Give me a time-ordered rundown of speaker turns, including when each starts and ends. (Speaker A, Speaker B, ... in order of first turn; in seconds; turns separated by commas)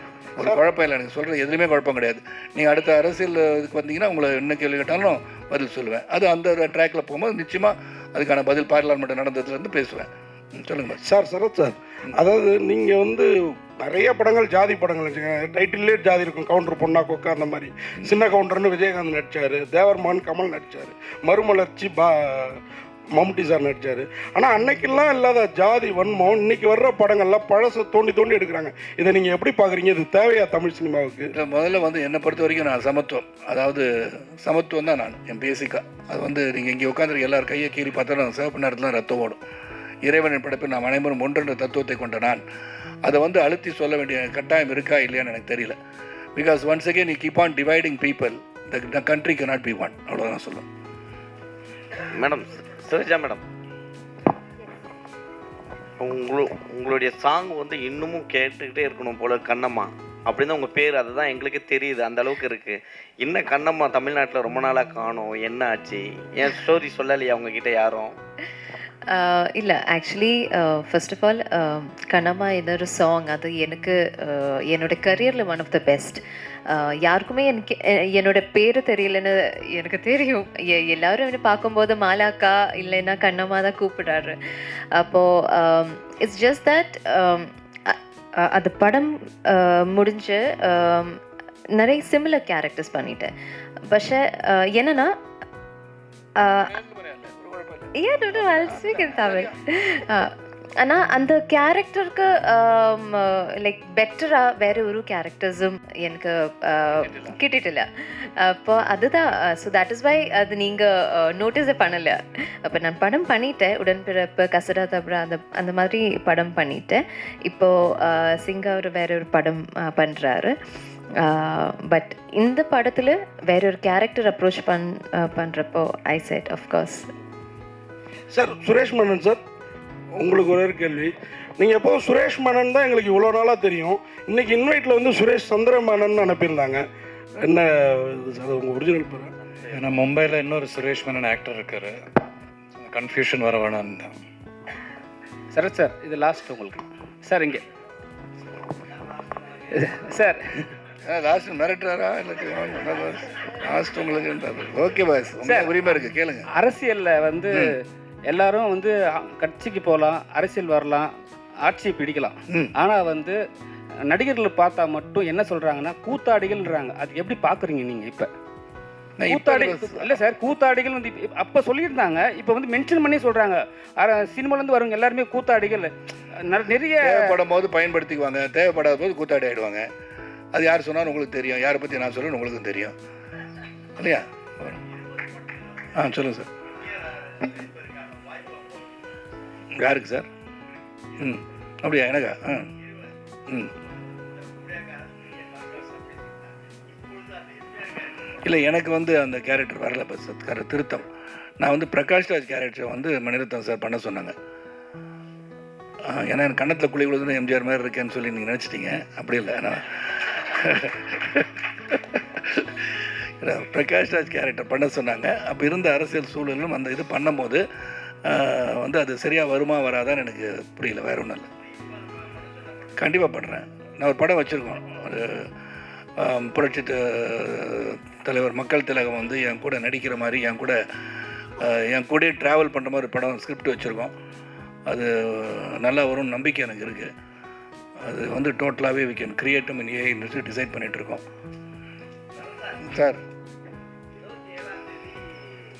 Speaker A: 0.4-11.0, Speaker B: 11.0-22.6, Speaker B: 23.1-31.3, Speaker A: 31.3-39.4, Speaker A: 40.0-42.4, Speaker A: 43.0-45.8, Speaker A: 46.4-50.6, Speaker C: 52.2-53.4, Speaker C: 56.0-68.1, Speaker D: 69.1-84.3, Speaker D: 84.9-91.2, Speaker D: 91.8-93.3, Speaker D: 93.9-95.1, Speaker D: 96.4-96.7, Speaker A: 96.7-99.3, Speaker D: 97.9-120.5, Speaker D: 121.2-127.1, Speaker B: 128.3-129.4, Speaker B: 130.1-136.8, Speaker B: 137.4-139.3, Speaker E: 139.7-142.1, Speaker E: 142.8-144.2, Speaker F: 145.5-147.6, Speaker F: 149.7-150.7, Speaker A: 151.0-156.5, Speaker F: 155.4-156.0, Speaker F: 156.5-161.1, Speaker F: 161.6-163.4, Speaker A: 162.5-162.7, Speaker F: 164.1-168.3, Speaker A: 169.2-170.2, Speaker F: 169.2-175.9, Speaker F: 176.4-177.4, Speaker A: 177.0-179.9, Speaker A: 180.5-182.9, Speaker A: 184.0-184.8, Speaker A: 185.9-186.5, Speaker A: 189.7-190.3, Speaker A: 191.2-192.7, Speaker A: 198.4-201.0, Speaker A: 201.6-204.3, Speaker A: 206.1-217.6, Speaker A: 218.2-221.5, Speaker A: 223.0-225.5, Speaker A: 226.2-230.8, Speaker A: 231.6-234.1, Speaker A: 234.9-237.1, Speaker A: 238.0-241.2, Speaker A: 242.8-243.2